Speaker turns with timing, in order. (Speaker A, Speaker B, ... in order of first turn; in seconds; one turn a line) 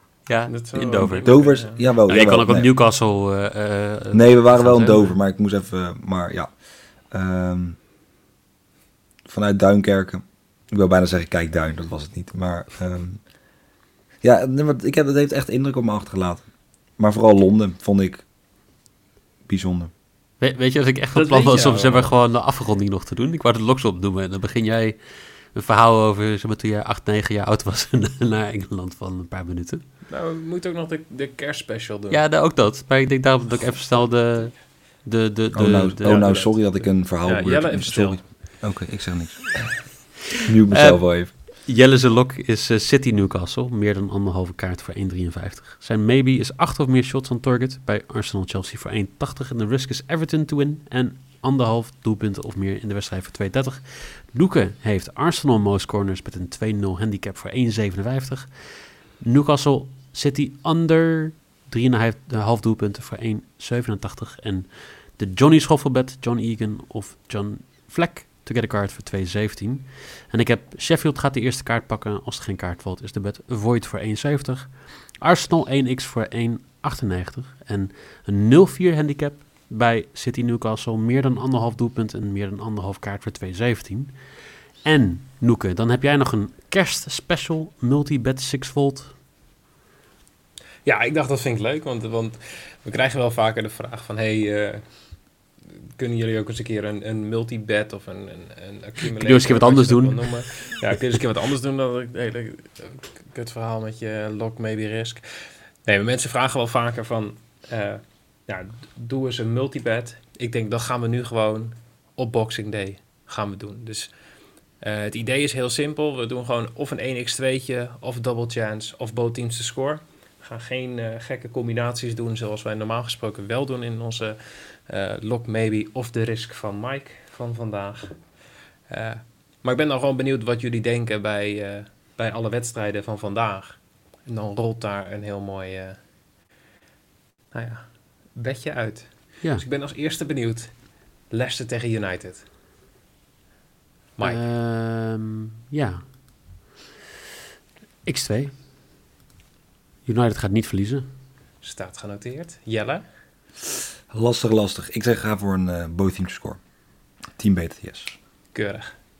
Speaker A: 0.3-1.4
Speaker B: 0.5-1.8
Speaker C: 1.2-2.7
Speaker A: 2.1-5.2
Speaker C: 4.1-7.8
Speaker C: 9.3-13.2
Speaker C: 14.2-16.5
Speaker C: 17.0-18.2
Speaker C: 19.5-19.9
Speaker A: 20.4-25.0
Speaker B: 21.1-22.1
Speaker A: 25.5-29.8
Speaker B: 30.1-32.2
Speaker A: 32.1-36.3
Speaker C: 35.5-39.9
Speaker B: 36.0-38.6
Speaker C: 40.4-41.3
Speaker A: 40.7-84.2
Speaker A: 84.8-89.1
Speaker B: 90.8-94.9
Speaker B: 96.0-114.2
Speaker A: 99.2-100.5
Speaker B: 114.8-128.2
Speaker B: 128.9-136.0
Speaker B: 137.5-142.4
Speaker B: 144.2-144.4
Speaker A: 144.2-146.6
Speaker A: 148.1-148.6
Speaker A: 150.1-151.1
Speaker B: 151.6-153.0
Speaker C: 154.1-156.6
Speaker C: 157.3-158.2
Speaker B: 158.5-159.0